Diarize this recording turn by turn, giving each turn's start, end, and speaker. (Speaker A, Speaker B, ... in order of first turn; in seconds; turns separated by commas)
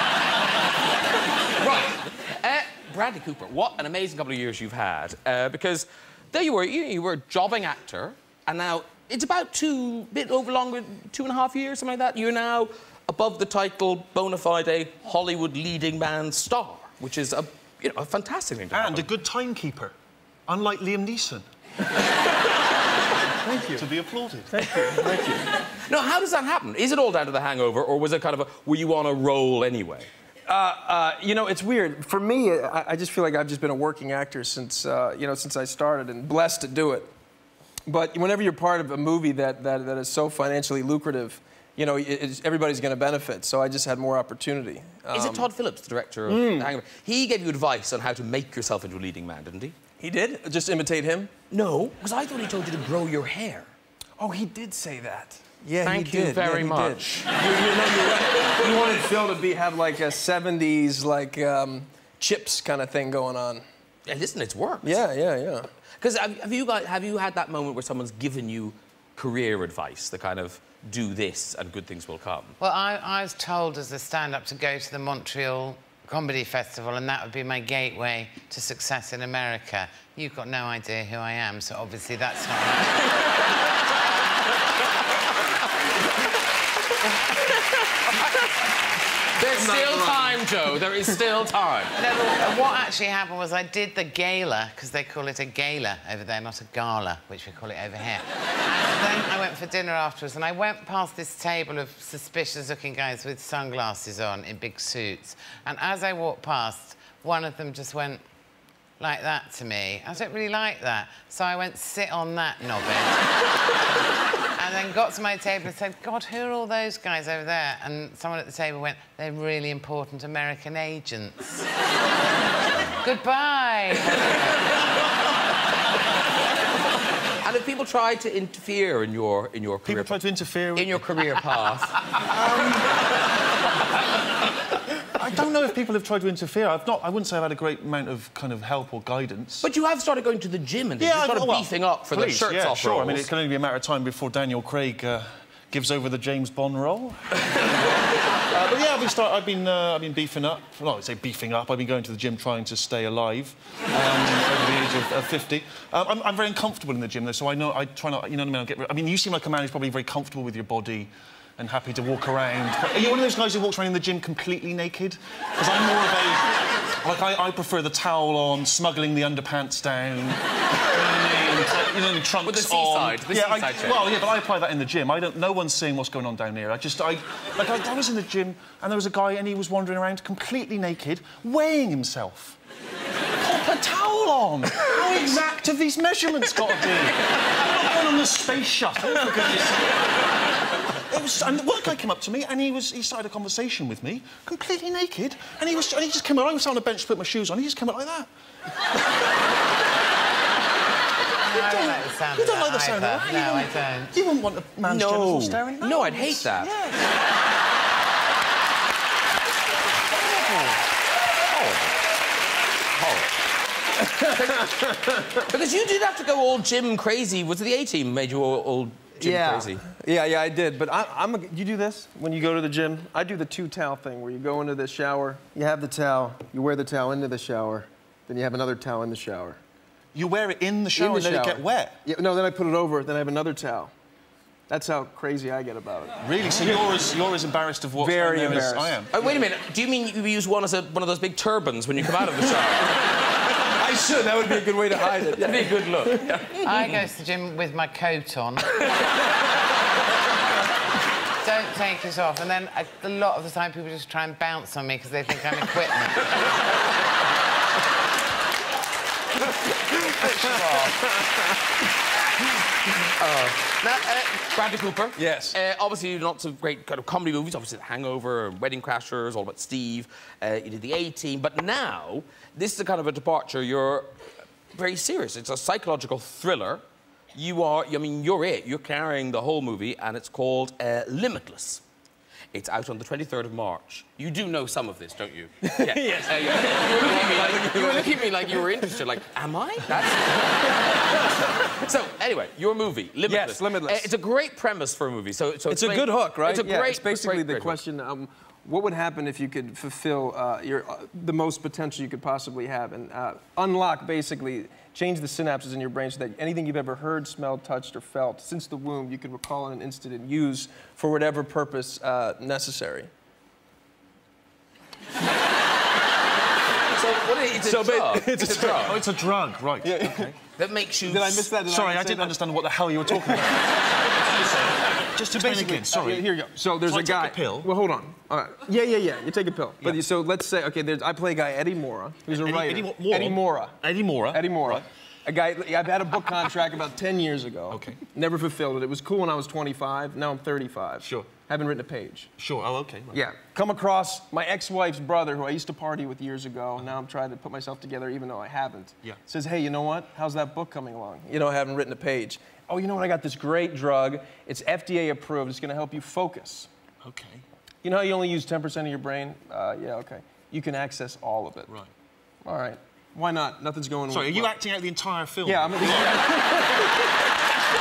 Speaker A: 1.6-19.1, Speaker B: 18.7-20.0, Speaker B: 20.5-21.5, Speaker C: 23.4-23.9, Speaker B: 23.7-24.7, Speaker C: 24.5-25.5, Speaker A: 25.9-30.1, Speaker C: 30.5-37.1, Speaker C: 37.9-45.5, Speaker A: 45.1-49.8, Speaker C: 46.3-46.7, Speaker C: 50.0-51.3, Speaker A: 51.5-53.7, Speaker C: 54.2-63.7, Speaker A: 55.8-57.3, Speaker A: 64.1-65.0, Speaker C: 64.8-65.7, Speaker A: 66.0-72.6, Speaker D: 72.6-83.2, Speaker A: 88.1-88.5, Speaker A: 89.4-91.9, Speaker C: 89.5-90.5, Speaker D: 92.0-108.2, Speaker D: 109.0-113.2, Speaker D: 114.6-121.7, Speaker D: 123.0-124.7, Speaker A: 127.4-130.2, Speaker B: 129.8-131.3, Speaker A: 130.8-132.0, Speaker B: 132.2-133.2, Speaker B: 135.1-139.7, Speaker A: 139.6-143.3, Speaker B: 141.0-182.6, Speaker A: 172.4-174.1, Speaker B: 183.4-189.8, Speaker C: 189.2-189.8, Speaker B: 190.9-198.3, Speaker D: 201.4-204.2, Speaker B: 201.6-207.1, Speaker A: 204.9-206.7, Speaker A: 211.5-212.0, Speaker A: 212.9-213.3, Speaker C: 214.0-215.4, Speaker A: 214.3-219.8, Speaker C: 219.2-229.6, Speaker B: 230.1-232.0, Speaker C: 230.9-233.9, Speaker C: 234.7-236.9, Speaker B: 236.2-239.1, Speaker C: 238.0-239.3, Speaker A: 239.1-243.0, Speaker C: 243.6-246.4, Speaker A: 245.4-246.7, Speaker D: 246.6-248.8, Speaker D: 251.4-256.4, Speaker C: 260.0-261.4, Speaker D: 260.1-261.0, Speaker A: 263.2-274.1, Speaker C: 265.2-265.6, Speaker A: 274.7-276.8, Speaker A: 277.4-281.8, Speaker A: 282.5-290.8, Speaker C: 285.6-288.9, Speaker A: 291.8-297.8, Speaker C: 293.3-294.1, Speaker C: 295.7-313.1, Speaker A: 317.0-319.0, Speaker C: 317.6-318.9, Speaker B: 318.7-320.4, Speaker C: 319.8-320.3, Speaker A: 320.6-321.5, Speaker C: 321.1-322.5, Speaker B: 321.6-326.3, Speaker C: 323.1-323.6, Speaker C: 325.3-342.3, Speaker B: 326.8-327.7, Speaker B: 332.4-334.9, Speaker B: 337.7-338.0, Speaker B: 341.0-341.3, Speaker B: 342.4-343.2, Speaker C: 343.1-356.7, Speaker B: 357.0-357.5, Speaker C: 357.8-361.8, Speaker C: 362.4-364.5, Speaker B: 364.1-366.3, Speaker C: 365.4-367.1